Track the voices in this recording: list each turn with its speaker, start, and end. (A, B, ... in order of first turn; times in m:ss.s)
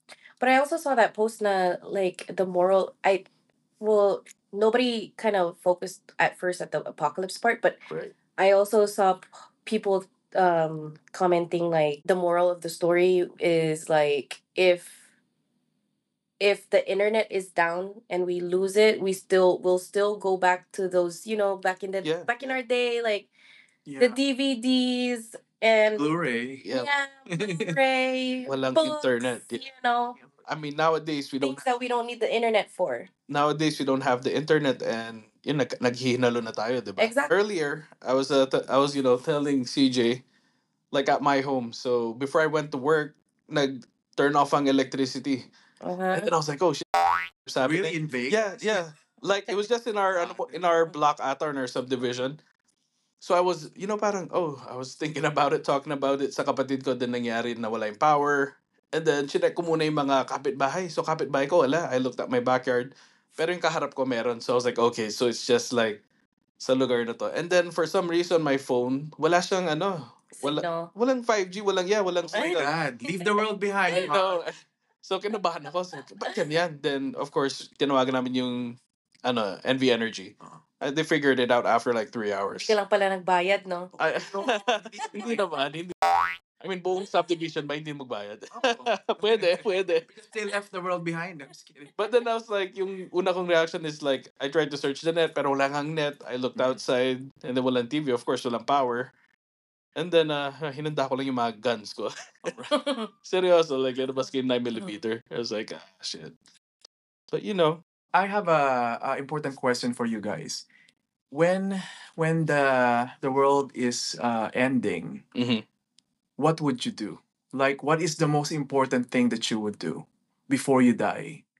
0:00.4-0:03.2 A
0:03.8-0:07.8 A
0:07.9-0:08.1 B
0:08.4-0:15.1 A
0:16.4-0:23.3 A
0:22.0-0:22.3 B
0:23.8-0:24.2 C
0:24.0-0:26.1 A
0:26.0-0:26.7 C
0:26.6-0:26.9 B
0:26.7-0:30.2 A
0:27.3-0:27.7 C
0:28.5-0:29.6 B
0:30.4-0:31.6 B
0:31.4-0:33.1 A
0:33.3-0:40.2 B
0:37.0-0:37.3 A
0:40.9-0:45.5 B
0:45.8-0:46.3 A
0:46.1-0:52.4 B
0:47.6-0:48.8 C
0:50.2-0:50.5 C
0:53.2-1:06.0 B
1:06.6-1:12.7 B
1:10.3-1:10.9 A
1:12.3-1:13.3 A
1:12.4-1:14.4 C
1:13.9-1:22.8 B
1:22.6-1:24.5 A
1:24.0-1:30.1 B
1:24.4-1:25.4 C
1:28.5-1:32.0 C
1:32.0-1:39.1 B
1:36.6-1:36.8 C
1:40.0-1:46.3 B
1:42.7-1:43.1 A
1:47.3-1:47.8 B
1:48.1-1:50.6 C
1:51.3-1:55.2 C
1:55.3-1:55.6 B
1:56.4-2:01.4 C